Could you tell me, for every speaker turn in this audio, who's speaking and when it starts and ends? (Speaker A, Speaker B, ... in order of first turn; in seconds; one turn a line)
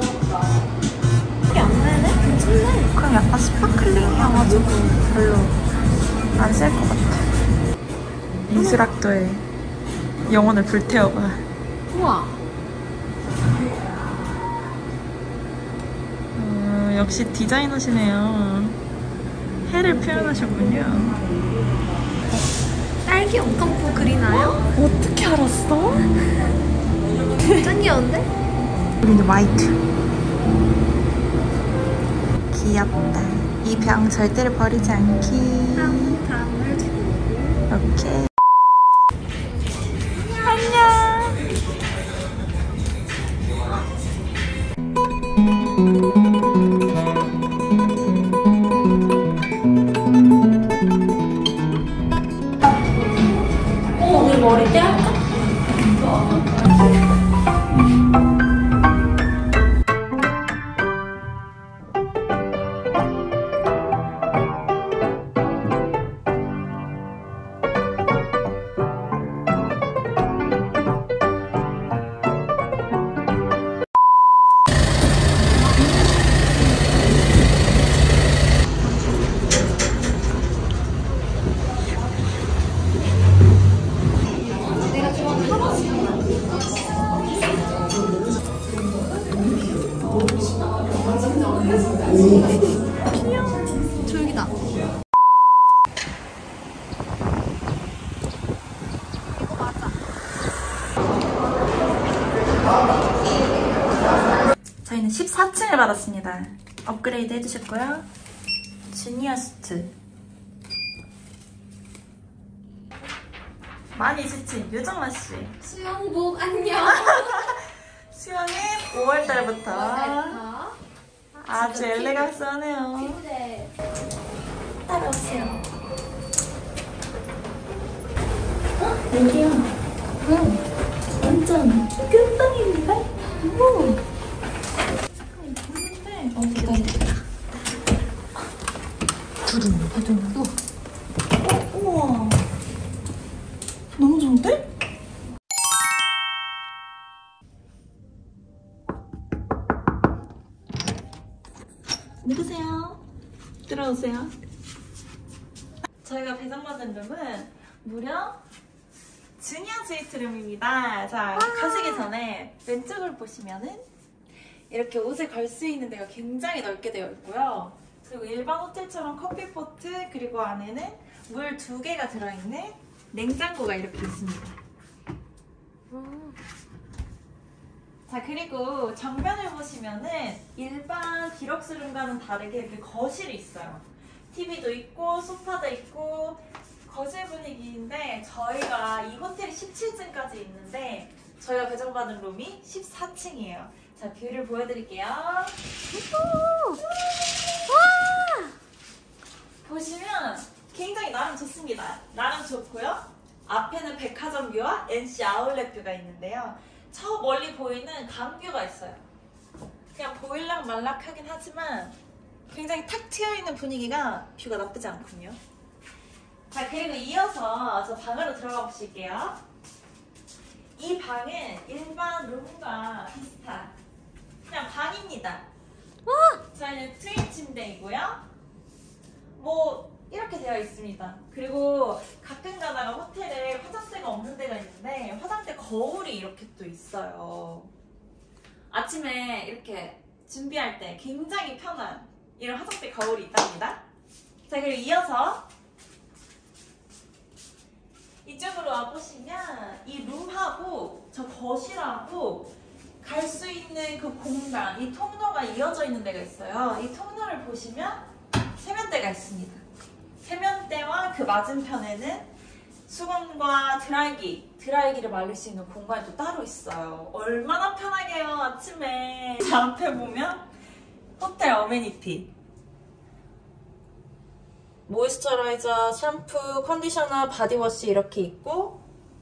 Speaker A: 1.5-2.9
Speaker B: 2.9-5.6
Speaker B: 6.3-7.3
Speaker B: 8.5-9.4
Speaker A: 8.6-8.9
Speaker B: 10.2-11.4
Speaker A: 11.9-12.4
Speaker B: 16.3-18.8
Speaker B: 19.6-21.2
Speaker A: 23.0-24.6
Speaker B: 24.3-26.1
Speaker A: 27.5-28.3
Speaker B: 29.0-29.8
Speaker B: 32.5-36.2
Speaker A: 35.7-37.6
Speaker B: 37.7-38.3
Speaker B: 40.2-41.5
Speaker B: 54.0-55.1
Speaker B: 56.0-56.4
Speaker A: 84.8-86.6
Speaker A: 91.2-92.8
Speaker A: 94.0-94.5
Speaker A: 99.4-99.9
Speaker B: 104.8-108.1
Speaker B: 108.9-109.9
Speaker B: 113.9-115.5
Speaker A: 115.6-117.5
Speaker B: 116.8-117.6
Speaker B: 118.1-120.4
Speaker A: 119.2-120.8
Speaker A: 121.4-122.4
Speaker B: 121.4-123.2
Speaker A: 122.9-123.7
Speaker B: 124.8-125.7
Speaker B: 128.8-130.6
Speaker B: 131.2-134.0
Speaker B: 135.3-136.9
Speaker A: 136.5-137.2
Speaker B: 139.4-140.4
Speaker B: 141.4-142.4
Speaker B: 143.9-144.6
Speaker B: 152.2-153.0
Speaker B: 153.7-154.3
Speaker B: 156.0-158.4
Speaker B: 159.4-163.8
Speaker A: 161.3-162.1
Speaker B: 164.7-174.6
Speaker A: 175.9-176.4
Speaker B: 178.1-195.6
Speaker A: 195.9-196.8
Speaker A: 197.7-198.5
Speaker B: 199.6-209.0
Speaker B: 209.9-212.0
Speaker B: 212.5-215.4
Speaker B: 216.5-219.4
Speaker B: 220.8-223.7
Speaker B: 224.4-225.4
Speaker A: 226.0-226.4
Speaker B: 226.5-228.2
Speaker B: 229.4-237.7
Speaker B: 238.7-243.8
Speaker B: 244.5-245.4
Speaker B: 248.2-259.6
Speaker B: 260.2-262.3
Speaker B: 262.9-270.5
Speaker B: 271.2-272.3
Speaker B: 274.9-278.8